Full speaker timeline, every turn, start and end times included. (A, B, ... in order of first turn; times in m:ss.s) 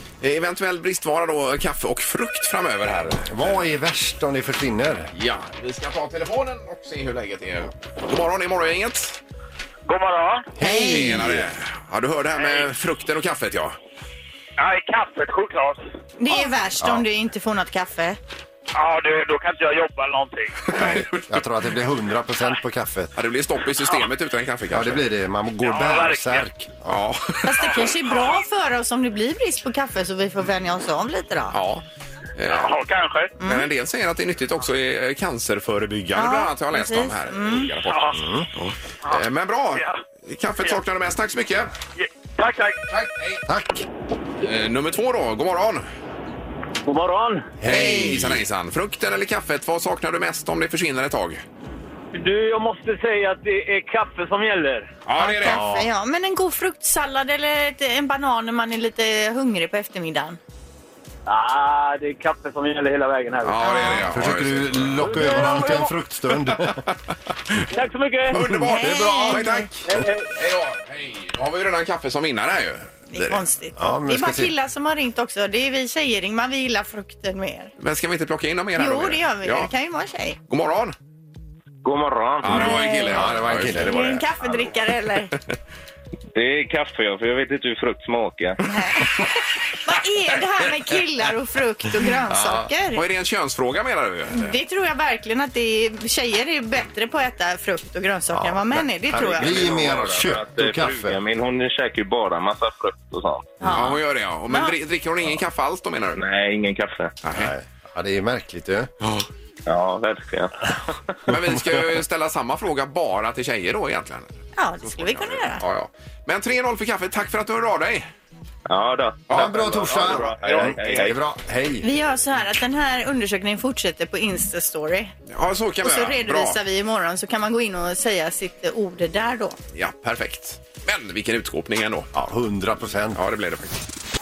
0:00.2-0:03.6 A
0:03.2-0:05.1 B
0:05.1-0:09.2 A
0:09.9-0:10.5 C
0:10.6-0:11.5 B
0:10.6-0:11.2 D
0:10.6-0:13.8 A
0:14.6-0:15.8 C
0:16.2-0:18.2 D
0:18.7-0:20.6 C
0:20.7-0:21.3 A
0:20.7-0:23.1 B
0:23.2-0:25.1 A
0:24.7-0:27.0 B
0:25.6-0:26.5 C
0:26.9-0:28.0 A
0:27.4-0:31.6 D
0:31.5-0:31.8 A
0:32.4-0:32.7 A
0:32.5-0:33.3 C
0:33.4-0:33.7 D
0:33.4-0:41.7 A
0:36.1-0:37.7 D
0:37.9-0:38.2 C
0:38.1-0:38.5 B
0:39.1-0:40.0 C
0:42.0-0:42.8 C
0:42.9-0:43.4 A
0:43.5-0:43.9 B
0:44.4-0:45.8 A
0:46.9-0:47.5 C
0:47.6-0:48.4 B
0:47.6-0:51.4 A
0:52.1-0:54.9 C
0:55.1-0:55.6 A
0:55.2-1:00.4 D
0:55.4-0:55.9 B
1:01.3-1:03.6 C
1:03.4-1:05.2 A
1:03.6-1:04.1 D
1:04.1-1:06.9 B
1:05.1-1:05.9 C
1:07.7-1:08.4 C
1:08.3-1:13.4 A
1:08.6-1:09.5 B
1:08.7-1:09.7 D
1:09.9-1:10.3 C
1:13.1-1:17.7 D
1:13.8-1:14.5 B
1:17.8-1:19.7 A
1:18.8-1:20.4 D
1:20.5-1:21.0 A
1:21.8-1:22.8 E
1:22.4-1:24.8 A
1:22.5-1:25.3 D
1:23.1-1:24.1 B
1:26.4-1:28.6 E
1:28.6-1:29.3 D
1:29.8-1:33.0 D
1:32.9-1:34.6 A
1:34.3-1:39.8 D
1:38.3-1:41.2 B
1:39.4-1:43.6 E
1:43.6-1:43.9 D
1:43.6-1:43.9 B
1:43.6-1:46.2 A
1:46.2-1:47.1 E
1:47.2-1:47.5 A
1:47.4-1:48.9 B
1:49.6-1:50.5 E
1:51.3-1:58.1 A
1:51.3-1:51.8 B
1:54.6-1:55.6 D
1:58.7-2:01.2 E
1:59.3-2:01.1 A
1:59.3-2:01.9 B
2:01.8-2:05.1 D
2:05.3-2:06.6 A
2:05.8-2:09.6 D
2:09.7-2:12.1 A
2:12.1-2:13.2 B
2:13.1-2:13.8 A